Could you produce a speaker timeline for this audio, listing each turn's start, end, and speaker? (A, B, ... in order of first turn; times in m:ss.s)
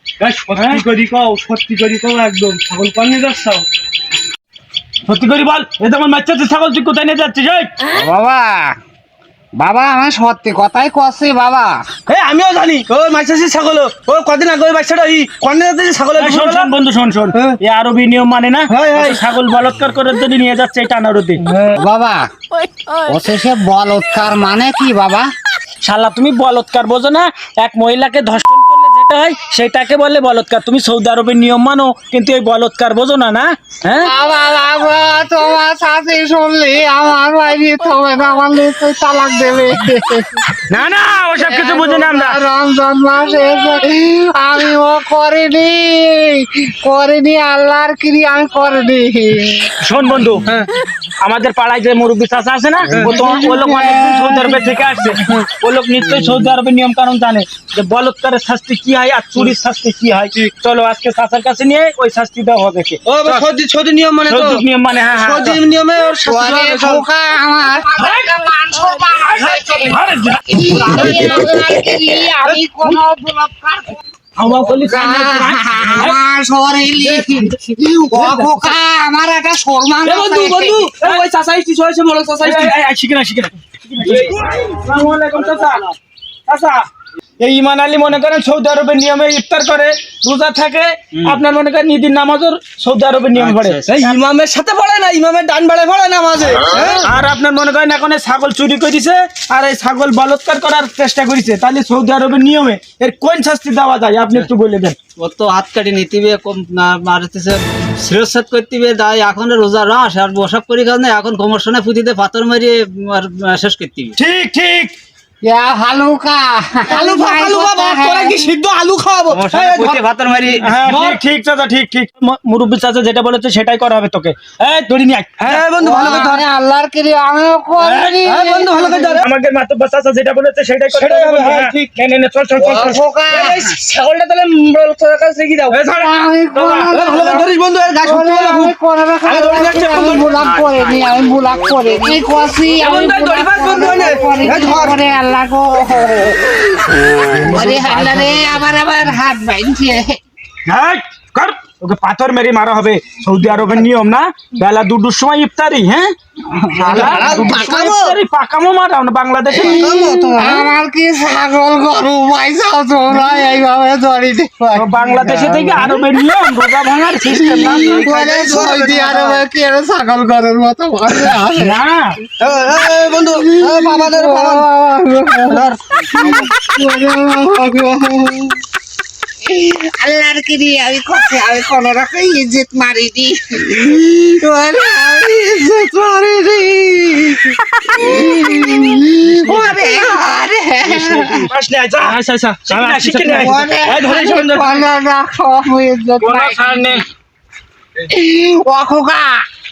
0:00.2-0:03.6 A
0:00.5-0:00.8 B
0:05.1-0:07.8 B
0:07.9-0:08.8 C
0:09.6-0:11.8 C
0:12.1-0:16.7 A
0:16.2-0:21.4 B
0:18.7-0:19.2 A
0:21.4-0:21.8 A
0:21.8-0:22.3 C
0:23.0-0:25.3 C
0:25.8-0:34.1 B
0:34.0-0:40.5 C
0:40.7-0:42.4 B
0:41.4-0:49.8 C
0:49.8-0:50.5 B
0:51.2-1:03.4 B
0:53.1-0:54.5 C
1:03.1-1:04.6 A
1:04.3-1:05.6 B
1:05.2-1:07.0 A
1:06.2-1:14.0 C
1:08.0-1:08.3 B
1:09.1-1:11.5 B
1:14.4-1:16.2 B
1:14.7-1:20.9 C
1:17.0-1:17.5 A
1:18.1-1:18.7 A
1:20.0-1:22.8 A
1:22.4-1:25.8 B
1:24.0-1:24.4 A
1:26.5-1:26.8 B
1:27.4-1:34.2 B
1:33.3-1:33.9 D
1:33.9-1:37.1 A
1:37.0-1:45.0 B
1:45.2-1:54.2 D
1:54.2-1:54.9 B
1:55.4-1:58.5 C
1:56.9-2:00.0 A
1:59.3-2:00.7 D
2:00.6-2:05.6 B
2:00.8-2:01.2 A
2:05.4-2:06.4 A
2:05.8-2:09.2 C
2:07.8-2:08.2 B
2:08.2-2:09.3 A
2:09.2-2:13.0 B
2:10.9-2:11.9 A
2:12.6-2:13.8 C
2:13.3-2:14.8 A
2:15.7-2:16.1 A
2:15.9-2:17.5 C
2:16.6-2:16.9 B
2:16.9-2:18.7 A
2:18.0-2:30.2 C
2:19.2-2:20.3 A
2:22.8-2:25.0 A
2:27.5-2:27.9 A
2:30.7-2:36.1 B
2:36.5-2:37.7 C
2:36.7-2:38.2 A
2:36.8-2:39.8 B
2:39.6-2:46.0 C
2:39.6-2:40.7 A
2:44.8-2:48.1 B
2:47.3-2:51.8 C
2:47.5-2:49.4 A
2:51.5-2:52.2 B
2:52.4-2:54.7 A
2:53.3-2:58.6 C
2:55.5-2:56.5 A
2:59.4-3:11.5 C
3:06.1-3:07.2 A
3:10.9-3:11.4 A
3:11.3-3:13.7 B
3:12.0-3:14.8 A
3:13.3-3:17.0 C
3:16.2-3:17.0 B
3:18.0-3:19.4 C